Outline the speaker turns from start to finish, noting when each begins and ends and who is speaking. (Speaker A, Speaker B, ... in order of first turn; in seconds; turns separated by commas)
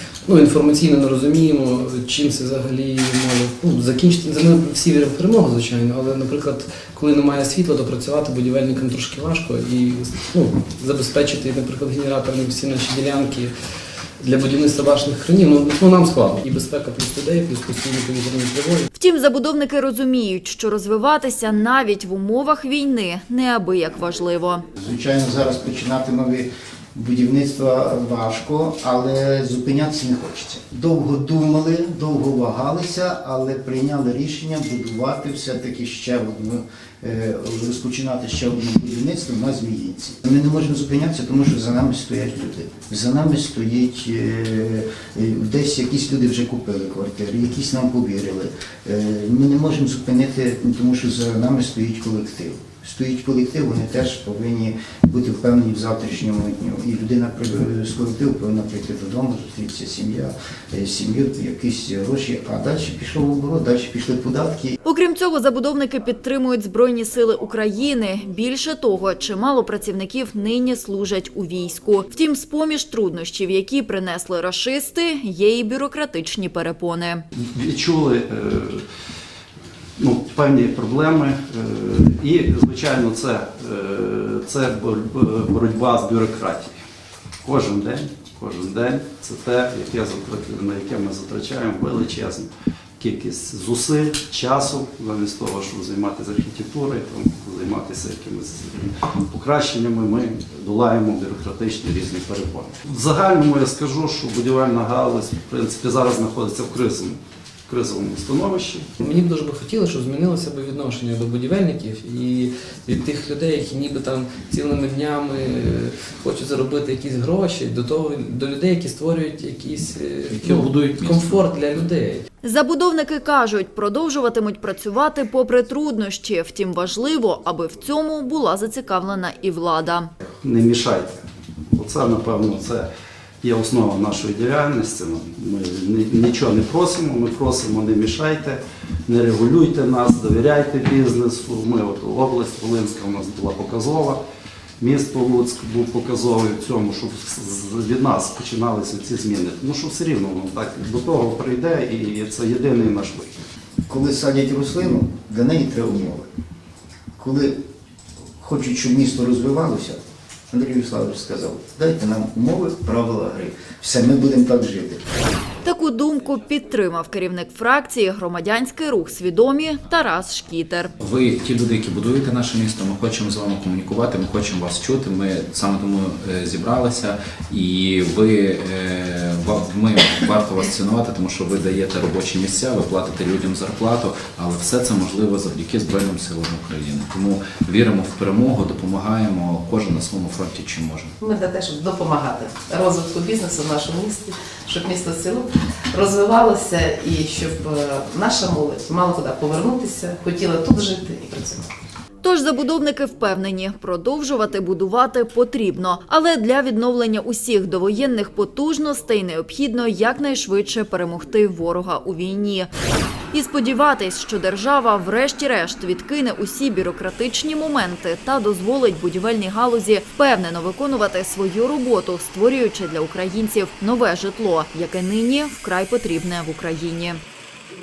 Speaker A: 0.2-13.5, Speaker A: 14.2-18.9, Speaker B: 18.9-24.7, Speaker C: 24.8-64.8, Speaker B: 64.8-77.2, Speaker D: 77.3-78.8, Speaker D: 80.0-86.8, Speaker D: 87.4-108.9, Speaker A: 109.0-122.2, Speaker E: 120.3-121.4, Speaker B: 122.4-130.1, Speaker D: 130.4-132.9, Speaker D: 133.4-144.2, Speaker D: 144.8-153.4, Speaker C: 153.9-156.3, Speaker C: 157.2-157.6, Speaker C: 158.4-165.0, Speaker B: 165.7-170.9, Speaker E: 171.0-191.2, Speaker F: 191.2-201.6, Speaker B: 202.2-212.7, Speaker B: 213.3-227.2